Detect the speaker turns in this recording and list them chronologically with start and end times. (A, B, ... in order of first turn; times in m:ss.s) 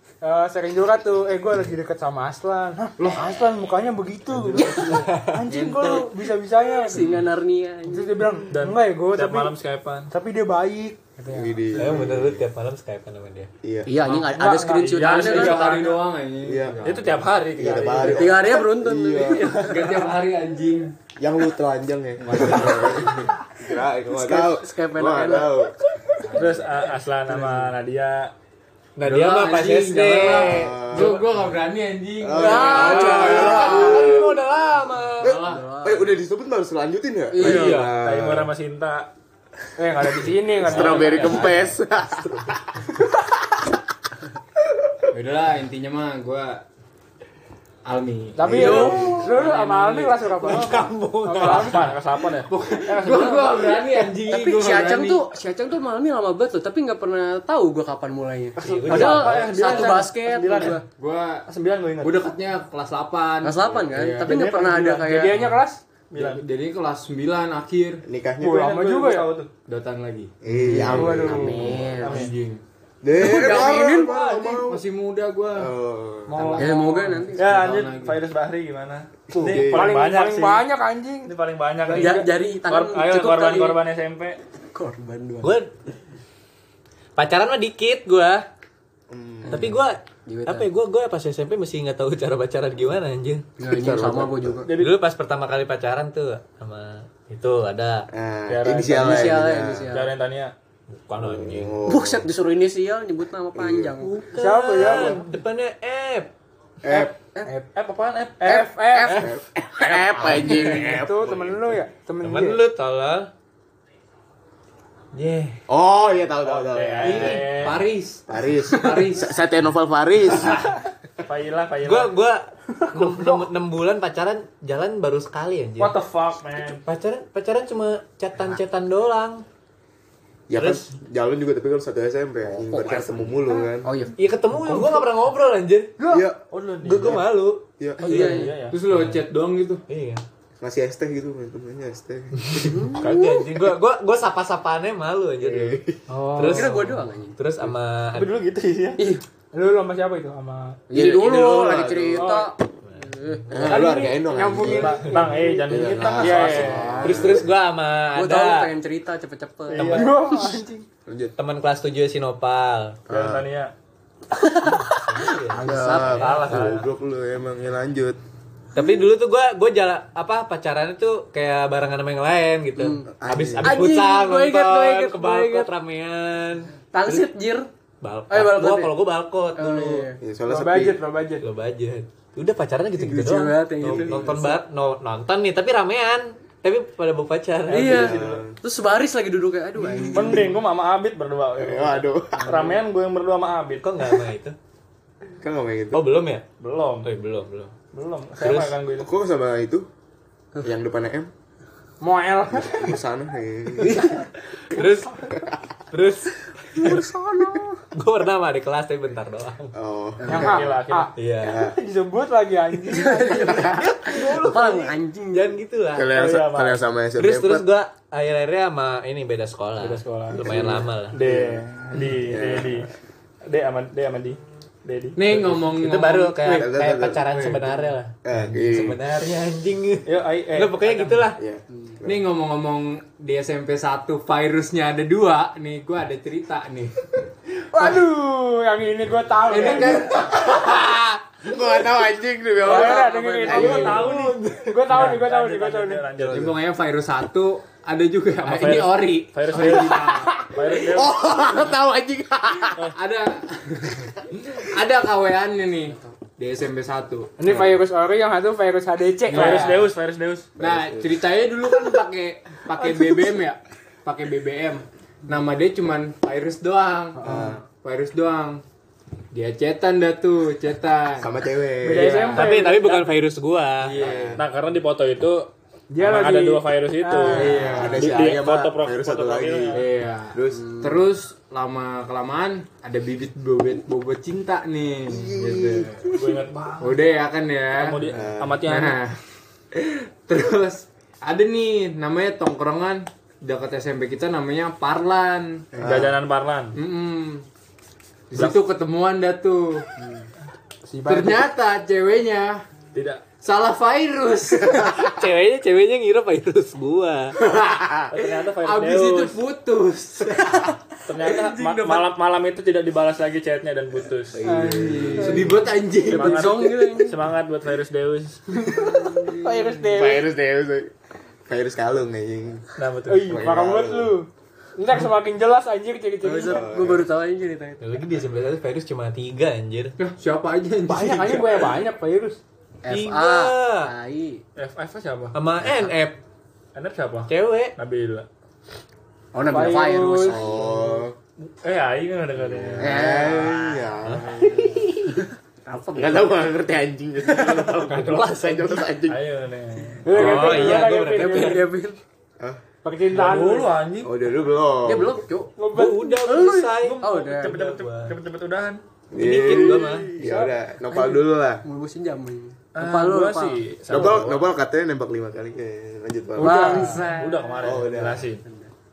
0:00.2-0:07.1 A
0:03.0-0:03.3 B
0:05.5-0:06.1 C
0:06.9-0:08.4 C
0:07.9-0:09.6 A
0:08.5-0:10.1 D
0:10.1-0:11.6 A
0:11.3-0:12.4 E
0:11.7-0:13.5 F
0:13.6-0:13.9 E
0:13.9-0:15.8 C
0:14.0-0:16.0 D
0:14.3-0:15.3 A
0:15.0-0:17.3 B
0:16.4-0:17.0 E
0:16.8-0:18.5 D
0:17.6-0:19.6 E
0:18.0-0:19.6 C
0:19.3-0:20.1 D
0:19.6-0:20.9 B
0:21.2-0:25.8 E
0:22.2-0:23.3 B
0:24.1-0:25.6 C
0:26.3-0:28.3 D
0:29.0-0:31.1 F
0:29.0-0:34.1 B
0:30.4-0:31.2 E
0:32.2-0:34.4 E
0:32.4-0:34.3 C
0:32.8-0:35.2 F
0:35.2-0:36.2 C
0:35.2-0:35.6 B
0:35.2-0:38.5 E
0:37.3-0:37.9 C
0:37.4-0:37.7 F
0:37.4-0:39.1 D
0:39.8-0:41.5 A
0:40.6-0:42.5 E
0:40.7-0:41.6 B
0:40.8-0:41.4 D
0:45.1-0:46.6 B
0:47.9-0:50.5 B
0:48.4-0:52.0 A
0:48.4-0:49.3 E
0:48.6-0:49.2 C
0:50.4-0:51.9 F
0:51.3-0:53.6 D
0:52.4-0:55.3 B
0:54.3-1:00.8 C
0:58.6-1:00.0 F
0:58.6-1:00.8 D
1:00.8-1:01.5 B
1:01.5-1:02.2 D
1:02.0-1:04.5 B
1:03.4-1:05.4 C
1:04.2-1:05.1 D
1:04.9-1:05.8 A
1:06.1-1:06.4 D
1:06.1-1:08.0 B
1:08.0-1:08.7 E
1:08.4-1:09.3 A
1:08.5-1:09.5 D
1:09.7-1:12.6 B
1:10.4-1:11.9 E
1:10.7-1:12.2 C
1:12.0-1:12.3 D
1:13.0-1:14.9 E
1:13.1-1:14.2 C
1:14.1-1:15.7 B
1:15.6-1:16.5 E
1:16.3-1:18.2 B
1:16.6-1:17.5 C
1:17.4-1:20.7 D
1:19.3-1:22.3 A
1:19.4-1:20.0 E
1:21.3-1:24.4 D
1:21.9-1:23.8 C
1:24.7-1:25.5 C
1:25.4-1:25.7 F
1:27.2-1:28.5 F
1:29.1-1:29.8 E
1:29.5-1:30.7 C
1:29.5-1:33.4 F
1:33.6-1:34.7 C
1:33.7-1:34.7 E
1:34.6-1:35.0 D
1:34.8-1:38.1 F
1:38.1-1:40.0 E
1:38.5-1:39.4 D
1:38.9-1:40.1 C
1:39.9-1:40.5 D
1:40.9-1:41.8 F
1:41.2-1:42.3 E
1:41.9-1:44.1 C
1:43.5-1:44.0 E
1:44.0-1:46.3 F
1:44.3-1:45.2 A
1:44.8-1:45.2 E
1:46.8-1:47.2 E
1:46.9-1:47.7 A
1:47.7-1:48.7 D
1:48.4-1:49.3 A
1:48.5-1:49.3 C
1:49.2-1:51.6 E
1:50.3-1:52.6 A
1:52.2-1:53.3 F
1:55.1-1:55.6 F
1:55.7-1:57.5 E
1:56.4-1:57.9 D
1:57.0-1:59.3 B
1:58.3-2:00.6 E
2:01.2-2:02.1 D
2:01.8-2:06.0 F
2:05.8-2:06.8 D
2:06.8-2:09.4 F
2:10.5-2:13.9 E
2:10.6-2:10.9 F
2:12.4-2:14.2 C
2:14.2-2:16.0 F
2:16.1-2:16.4 E
2:16.5-2:17.2 D
2:16.8-2:19.2 F
2:17.0-2:17.3 E
2:17.8-2:18.4 E
2:18.0-2:18.8 D
2:18.1-2:18.6 C
2:18.6-2:19.8 B
2:19.9-2:20.2 F
2:20.6-2:23.0 E
2:22.5-2:23.5 C
2:23.0-2:28.4 F
2:25.4-2:26.0 E
2:26.1-2:26.7 A
2:26.4-2:27.4 C
2:28.1-2:29.1 D
2:29.0-2:29.2 C
2:29.5-2:30.8 A
2:30.9-2:33.9 C
2:30.9-2:32.4 E
2:32.2-2:32.5 A
2:33.5-2:37.5 E
2:33.7-2:36.8 A
2:34.6-2:37.0 D
2:36.2-2:37.4 C
2:37.0-2:38.7 F
2:38.2-2:40.6 C
2:39.7-2:40.2 D
2:39.8-2:40.9 A
2:41.1-2:41.4 E
2:41.4-2:43.0 F
2:43.1-2:43.7 D
2:43.1-2:43.4 E
2:44.4-2:46.5 C
2:44.9-2:46.4 F
2:45.6-2:48.2 E
2:45.9-2:46.9 D
2:48.8-2:57.3 F
2:52.8-2:53.1 C
2:53.1-2:53.9 E
2:53.6-2:55.7 C
2:56.9-2:57.7 C
2:58.0-3:00.1 F
2:58.3-2:59.0 C
2:59.6-3:00.2 C
3:00.2-3:01.0 E
3:00.5-3:01.5 A
3:01.4-3:08.1 F
3:03.0-3:04.6 C
3:03.8-3:04.4 E
3:07.7-3:08.4 D
3:07.7-3:10.6 C
3:07.8-3:08.5 E
3:09.9-3:10.3 E
3:10.1-3:13.9 D
3:11.6-3:12.7 E
3:13.8-3:14.6 F
3:15.4-3:16.1 E
3:15.9-3:16.5 F
3:16.6-3:17.1 D
3:17.0-3:17.7 F
3:17.9-3:19.1 D
3:18.4-3:18.8 F
3:19.0-3:19.9 E
3:20.6-3:21.3 E
3:22.0-3:23.0 A
3:22.6-3:24.1 E
3:23.8-3:24.3 C
3:24.7-3:25.3 F
3:25.9-3:27.0 F
3:26.8-3:27.8 C
3:27.9-3:29.7 F
3:29.7-3:30.6 E
3:30.2-3:30.6 C
3:30.3-3:33.7 A
3:30.3-3:31.1 D
3:31.2-3:31.6 F
3:31.4-3:31.8 E
3:32.9-3:35.6 C
3:33.5-3:36.1 F
3:35.9-3:37.7 E
3:36.1-3:36.8 D
3:37.2-3:41.2 F
3:39.8-3:42.9 D
3:40.4-3:41.6 E
3:42.2-3:42.9 E
3:43.5-3:45.3 D
3:45.2-3:46.6 B
3:45.6-3:51.4 F
3:46.4-3:49.0 E
3:50.1-3:51.4 D
3:51.4-3:52.2 E
3:52.0-3:57.0 B
3:57.7-4:00.1 A
3:59.5-4:01.1 B
4:01.4-4:04.1 E
4:02.6-4:06.1 A
4:02.7-4:04.1 C
4:03.4-4:06.6 D
4:06.2-4:06.5 E
4:06.3-4:10.5 B
4:08.4-4:11.2 D
4:10.7-4:12.9 E
4:12.9-4:17.3 B
4:17.4-4:19.8 A
4:19.3-4:19.9 B
4:19.3-4:20.6 D
4:20.6-4:21.1 E
4:20.6-4:28.6 B
4:27.2-4:27.6 A
4:27.2-4:27.6 E
4:29.3-4:31.3 B
4:31.2-4:32.4 E
4:31.8-4:33.0 A
4:31.9-4:32.4 B
4:32.4-4:34.0 F
4:33.8-4:34.4 B
4:34.0-4:34.4 E
4:34.4-4:39.8 D
4:35.9-4:37.9 A
4:37.3-4:38.1 B
4:37.3-4:39.8 E
4:39.7-4:46.2 B
4:40.3-4:40.8 E
4:40.6-4:41.0 C
4:45.1-4:46.1 E
4:46.1-4:47.0 D
4:46.8-4:48.1 B
4:47.7-4:49.0 D
4:48.1-4:48.7 E
4:48.7-4:49.2 B
4:49.7-4:55.7 B
4:55.8-4:56.2 E
4:55.8-4:56.8 D
4:56.8-4:57.4 B
4:58.3-4:59.9 B
5:00.9-5:01.4 A
5:01.1-5:02.6 B
5:02.9-5:03.2 D
5:03.4-5:04.9 B
5:04.7-5:07.4 F
5:08.1-5:09.4 D
5:08.2-5:12.1 B
5:11.1-5:14.4 D
5:14.3-5:15.6 E
5:14.4-5:15.5 A
5:14.7-5:16.6 B
5:16.0-5:17.3 C
5:16.1-5:18.8 D
5:18.7-5:19.4 C
5:19.3-5:20.3 A
5:19.9-5:20.9 E
5:21.5-5:22.7 E
5:22.8-5:23.5 D
5:23.1-5:26.6 A
5:23.3-5:24.2 E
5:26.2-5:27.8 C
5:26.4-5:27.1 E
5:27.8-5:30.0 F
5:30.0-5:31.7 B
5:30.9-5:32.4 A
5:32.8-5:34.4 C
5:32.9-5:33.9 F
5:34.6-5:35.4 D
5:35.4-5:36.2 F
5:36.8-5:38.3 D
5:37.3-5:37.8 F
5:39.3-5:40.7 C
5:39.5-5:40.4 A
5:40.3-5:41.2 E
5:41.4-5:43.2 D
5:42.4-5:44.9 E
5:42.8-5:44.9 C
5:45.6-5:46.4 C
5:46.0-5:49.2 E
5:47.3-5:47.7 C
5:47.9-5:48.8 F
5:48.0-5:50.8 D
5:50.0-5:51.7 A
5:50.1-5:51.7 F
5:50.4-5:52.0 C
5:52.8-5:53.8 A
5:53.1-5:54.1 D
5:54.0-5:55.2 E
5:54.8-5:55.5 C
5:55.6-5:56.3 A
5:55.7-5:58.2 F
5:56.2-5:57.6 C
5:56.8-5:58.8 D
5:59.1-6:01.6 E
5:59.2-6:00.1 F
6:00.2-6:00.5 A
6:00.9-6:03.6 C
6:02.8-6:04.5 D
6:03.9-6:06.8 E
6:06.4-6:07.1 A
6:06.4-6:07.7 C
6:06.4-6:08.4 D
6:07.6-6:08.3 E
6:08.4-6:08.7 C